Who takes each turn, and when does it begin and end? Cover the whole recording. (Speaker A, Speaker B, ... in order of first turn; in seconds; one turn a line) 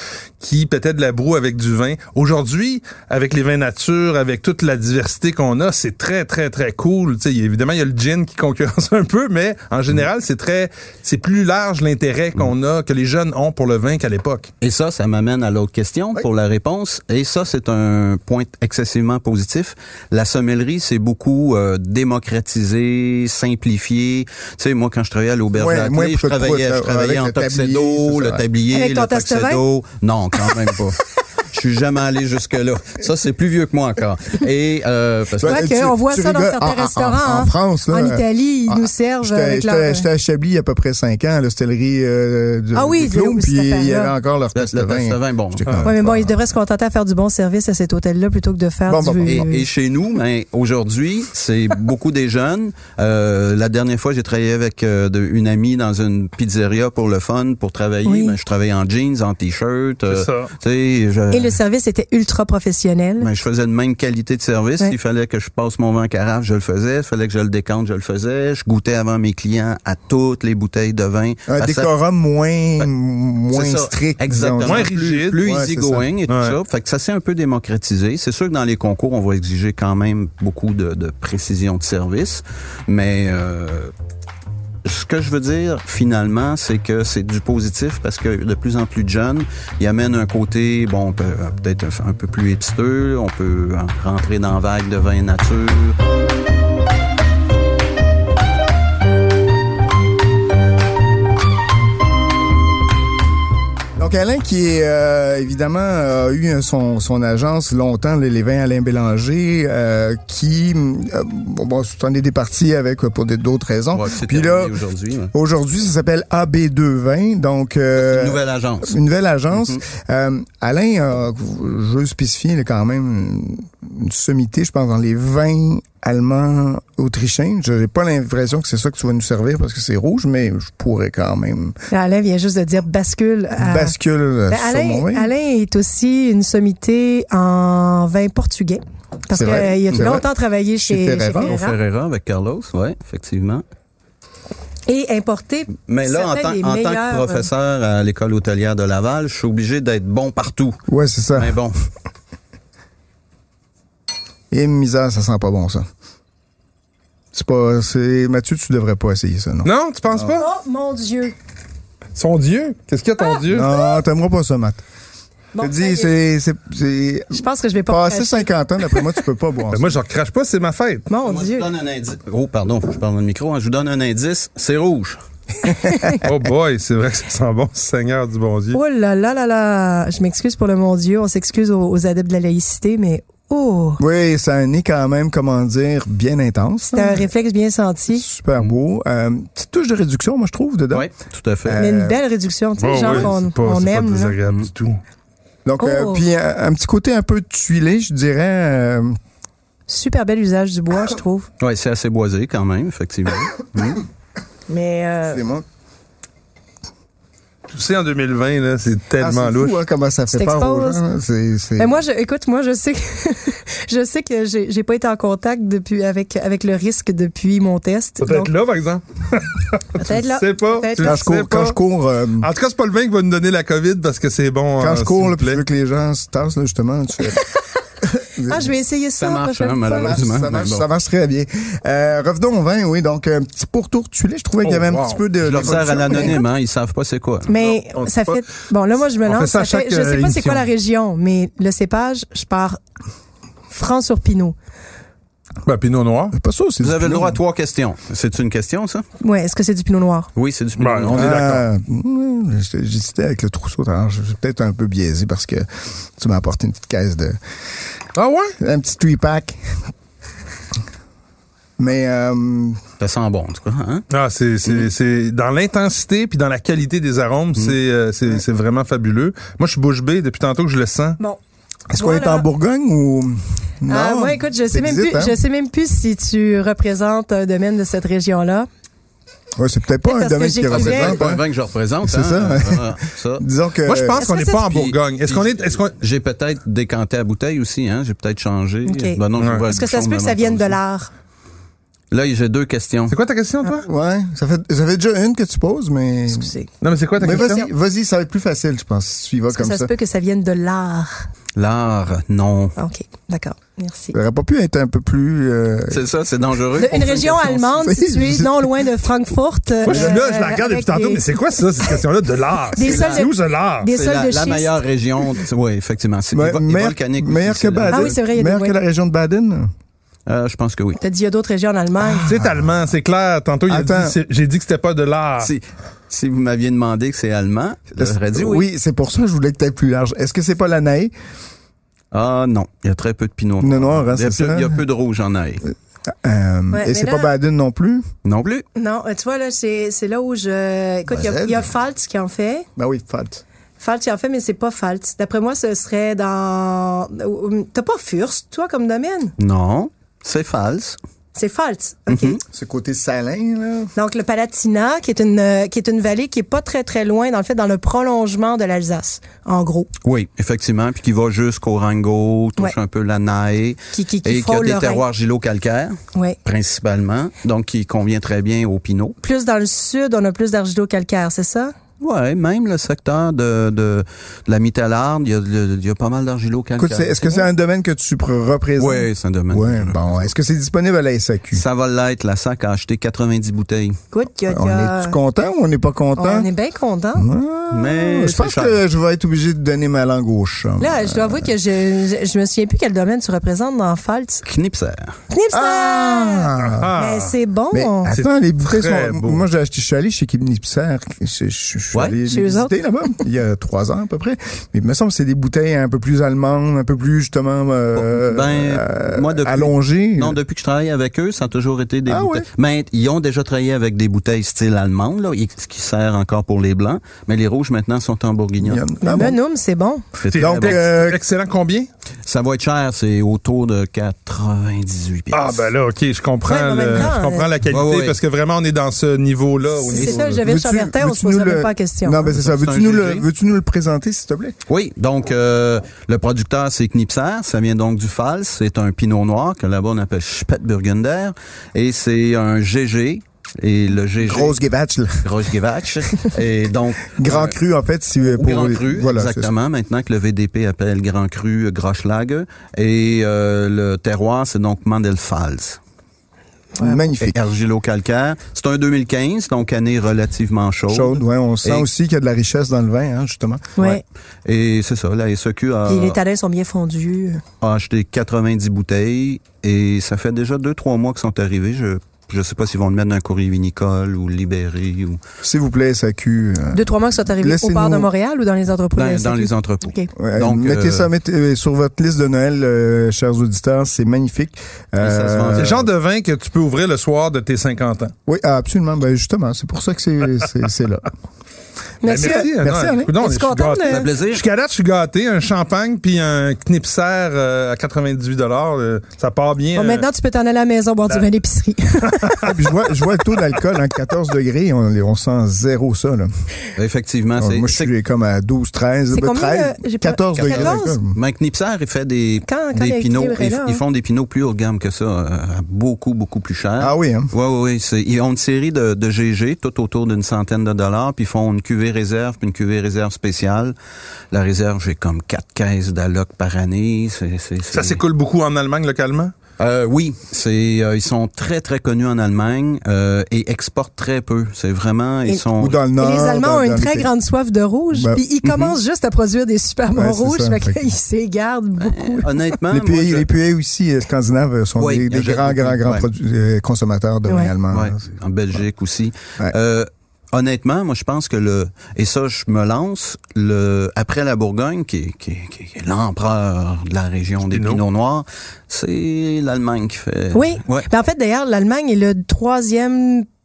Speaker A: 0.4-14.5
Speaker B: 14.6-35.7
Speaker C: 25.6-28.4
Speaker D: 28.7-29.6
Speaker C: 35.4-46.4
Speaker D: 35.4-40.1
Speaker D: 42.7-44.1
Speaker B: 44.5-45.9
Speaker D: 45.9-49.7
Speaker C: 48.9-49.5
Speaker B: 49.2-61.6
Speaker D: 58.0-58.3
Speaker A: 60.1-60.5
Speaker D: 61.3-63.3
Speaker B: 63.2-71.9
Speaker C: 71.5-76.1
Speaker B: 73.5-83.9
Speaker A: 74.6-75.4
Speaker A: 76.3-76.6
Speaker B: 84.8-96.0
Speaker C: 104.0-114.8
Speaker B: 113.9-115.3
Speaker C: 115.3-131.7
Speaker B: 118.0-118.9
Speaker B: 119.5-119.8
Speaker D: 131.9-133.9
Speaker C: 133.6-135.3
Speaker D: 134.5-141.8
Speaker C: 139.3-141.5
Speaker B: 141.4-143.6
Speaker D: 144.9-147.4
Speaker B: 145.8-150.8
Speaker C: 150.9-151.6
Speaker B: 151.3-151.8
Speaker C: 154.5-155.8
Speaker C: 157.3-160.4
Speaker A: 159.6-160.5
Speaker D: 160.3-161.3
Speaker A: 162.1-163.7
Speaker D: 163.2-164.0
Speaker C: 163.5-164.8
Speaker D: 165.5-166.1
Speaker C: 165.6-169.9
Speaker D: 167.3-169.0
Speaker A: 169.7-171.1
Speaker D: 171.1-171.7
Speaker B: 171.2-175.2
Speaker D: 175.8-176.2
Speaker C: 175.9-176.2
Speaker A: 176.2-178.8
Speaker D: 178.7-184.0
Speaker C: 184.0-187.3
Speaker D: 186.9-188.2
Speaker C: 188.1-191.1
Speaker B: 190.9-191.8
Speaker C: 191.6-192.2
Speaker D: 191.8-194.3
Speaker A: 192.8-195.0
Speaker C: 195.6-199.1
Speaker D: 195.8-196.2
Speaker D: 199.9-201.5
Speaker B: 201.6-204.0
Speaker D: 204.7-205.4
Speaker C: 205.3-205.6
Speaker A: 207.7-209.8
Speaker C: 209.2-212.0
Speaker D: 210.3-211.0
Speaker D: 211.8-218.5
Speaker A: 218.2-221.8
Speaker D: 220.0-221.3
Speaker C: 221.0-222.5
Speaker A: 222.4-225.6
Speaker C: 224.8-227.4
Speaker C: 228.2-228.7
Speaker D: 228.4-230.2
Speaker B: 229.2-230.8
Speaker C: 229.9-236.4
Speaker A: 234.6-235.7
Speaker B: 235.4-237.5
Speaker D: 237.5-242.8
Speaker A: 237.6-238.5
Speaker A: 239.2-240.7
Speaker D: 243.7-244.6
Speaker A: 245.6-246.3
Speaker C: 246.3-247.4
Speaker B: 246.8-249.1
Speaker D: 249.2-250.3
Speaker B: 250.3-251.5
Speaker A: 250.8-251.6
Speaker C: 251.1-255.7
Speaker C: 256.2-257.4
Speaker A: 258.1-258.5
Speaker C: 258.6-259.8
Speaker C: 261.8-262.8
Speaker B: 263.0-264.1
Speaker A: 264.1-271.2
Speaker C: 271.9-275.4
Speaker D: 271.9-272.5
Speaker D: 273.9-278.7
Speaker C: 279.6-281.4
Speaker D: 280.0-281.2
Speaker B: 280.7-283.4
Speaker C: 282.0-284.2
Speaker A: 283.9-286.0
Speaker D: 284.2-284.6
Speaker B: 284.7-290.8
Speaker D: 288.9-291.1
Speaker A: 289.4-289.6
Speaker B: 292.1-293.1
Speaker A: 293.1-293.9
Speaker C: 293.6-296.5
Speaker D: 296.3-296.7
Speaker A: 296.8-297.6
Speaker C: 297.2-299.9
Speaker D: 297.3-297.7
Speaker D: 299.5-301.3
Speaker B: 301.6-302.7
Speaker D: 302.8-304.1
Speaker C: 304.1-306.0
Speaker B: 305.9-307.7
Speaker D: 306.8-311.2
Speaker C: 307.5-308.9
Speaker A: 309.8-313.9
Speaker C: 309.9-310.2
Speaker D: 312.7-314.8
Speaker B: 312.8-313.3
Speaker B: 313.9-318.1
Speaker C: 316.3-319.7
Speaker D: 317.9-318.8
Speaker B: 320.3-321.0
Speaker D: 321.0-322.3
Speaker C: 322.0-322.7
Speaker A: 322.2-325.5
Speaker C: 323.7-324.1
Speaker B: 325.4-328.7
Speaker C: 328.0-331.1
Speaker B: 332.1-335.6
Speaker C: 333.6-334.8
Speaker C: 336.1-338.0
Speaker D: 336.7-337.3
Speaker B: 338.2-338.6
Speaker D: 338.8-342.6
Speaker C: 341.1-341.7
Speaker C: 342.8-343.4
Speaker D: 343.8-349.3
Speaker B: 349.4-351.0
Speaker D: 351.3-352.4
Speaker B: 352.1-352.4
Speaker C: 352.4-353.9
Speaker D: 353.9-359.9
Speaker B: 360.0-369.2
Speaker D: 363.9-365.0
Speaker D: 369.2-371.7
Speaker B: 372.0-377.5
Speaker C: 376.8-381.6
Speaker B: 378.8-380.3
Speaker B: 381.5-384.0
Speaker D: 384.1-385.1
Speaker C: 384.5-386.5
Speaker D: 386.1-387.3
Speaker C: 387.1-391.5
Speaker B: 387.7-388.8
Speaker D: 390.8-394.4
Speaker B: 394.4-395.2
Speaker D: 395.3-398.1
Speaker C: 395.5-396.9
Speaker A: 396.6-397.3
Speaker C: 397.7-410.4
Speaker A: 398.1-399.4
Speaker D: 402.2-402.8
Speaker B: 407.9-418.8
Speaker C: 412.1-412.4
Speaker C: 418.6-419.4
Speaker D: 419.0-420.0
Speaker B: 420.2-420.8
Speaker A: 420.3-421.9
Speaker C: 420.3-421.2
Speaker B: 422.2-425.7
Speaker A: 425.3-430.4
Speaker D: 426.4-427.5
Speaker B: 427.7-428.2
Speaker D: 429.8-432.2
Speaker C: 430.2-434.6
Speaker B: 432.2-433.3
Speaker B: 434.7-444.5
Speaker C: 444.2-445.5
Speaker B: 445.2-447.5
Speaker C: 447.1-449.5
Speaker B: 448.3-455.8
Speaker D: 456.8-457.0
Speaker C: 456.8-457.4
Speaker B: 457.2-461.9
Speaker C: 460.9-463.8
Speaker D: 463.8-464.0
Speaker B: 463.8-466.2
Speaker D: 465.9-467.4
Speaker B: 467.6-475.2
Speaker C: 475.4-478.1
Speaker D: 476.7-480.1
Speaker B: 478.9-481.1
Speaker C: 480.1-485.9
Speaker B: 485.0-485.9
Speaker A: 485.6-488.1
Speaker C: 488.3-491.1
Speaker D: 492.0-492.5
Speaker A: 492.1-500.1
Speaker C: 492.2-493.1
Speaker D: 493.2-494.1
Speaker B: 493.9-494.4
Speaker D: 499.7-502.5
Speaker A: 502.1-502.4
Speaker C: 502.4-506.3
Speaker B: 506.8-507.9
Speaker C: 507.4-511.2
Speaker D: 509.1-511.0
Speaker B: 510.3-523.7
Speaker D: 512.5-513.8
Speaker C: 516.8-517.3
Speaker B: 524.3-528.0
Speaker A: 527.7-529.3
Speaker B: 529.6-535.8
Speaker C: 535.6-537.1
Speaker D: 536.0-542.5
Speaker C: 537.9-538.2
Speaker B: 538.4-538.7
Speaker C: 539.9-540.8
Speaker B: 541.8-543.2
Speaker C: 542.7-548.0
Speaker B: 544.8-546.0
Speaker D: 547.3-547.5
Speaker B: 547.7-560.9
Speaker A: 557.5-557.8
Speaker D: 560.3-563.2